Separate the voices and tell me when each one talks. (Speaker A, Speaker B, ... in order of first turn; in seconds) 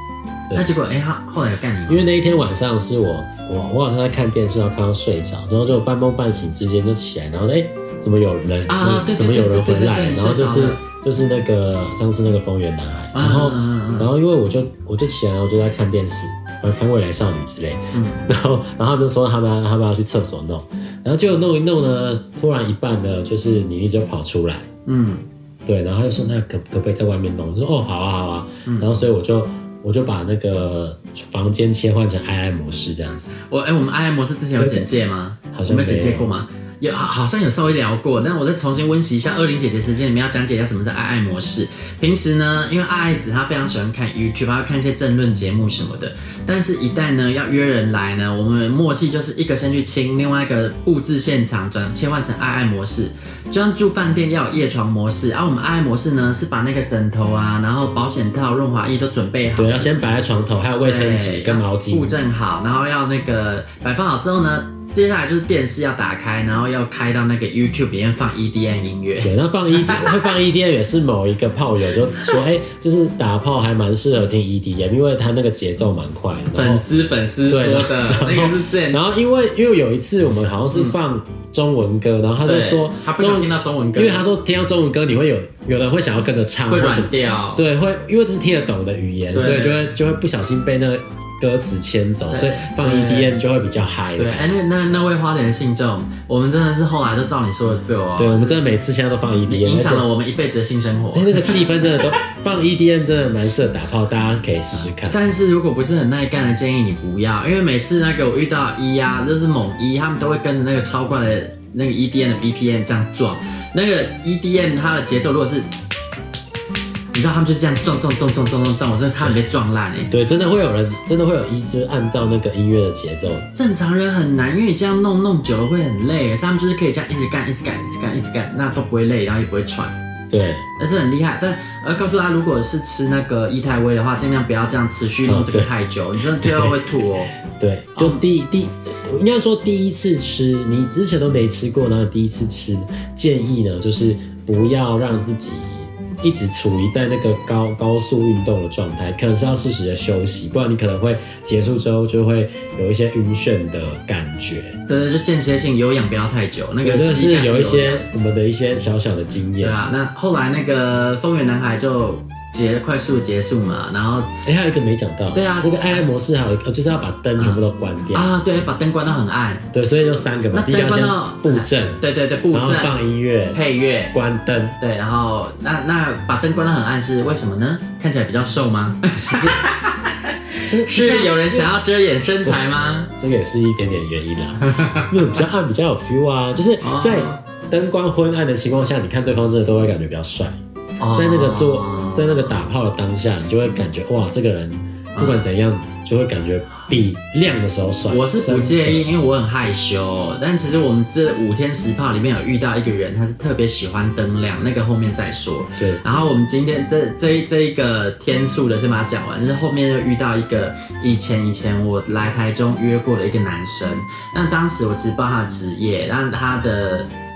Speaker A: 0.5-2.0, 8.7-10.8, 13.1-14.1, 17.9-18.2, 24.9-25.2, 28.6-29.0, 33.4-59.9, 60.8-70.3, 76.5-79.1, 80.7-81.0, 82.4-84.3, 86.7-87.6, 89.3-89.8, 92.3-93.4, 94.2-98.6, 99.5-102.1, 105.0-115.7, 117.1-120.1, 123.5-129.9, 130.8-137.3, 137.9-138.2, 154.8-158.1, 159.6-164.3, 165.3-166.0, 167.3-169.7, 170.5-173.0, 173.5-174.2, 174.8-183.1, 184.7-185.1, 186.8-187.4, 191.0-192.6, 195.1-195.5, 198.1-217.1
Speaker B: 1.9-24.7, 25.6-33.3, 34.6-34.9, 35.5-36.3, 59.5-62.1, 69.2-76.8, 77.5-94.5, 98.2-100.0, 101.1-105.2, 120.1-123.5, 130.3-130.6, 135.2-135.7, 136.3-136.8, 137.5-154.8, 156.8-159.8, 164.4-168.3, 169.7-174.8, 179.1-179.6, 180.7-181.7, 183.2-190.6, 191.1-199.1, 205.8-206.0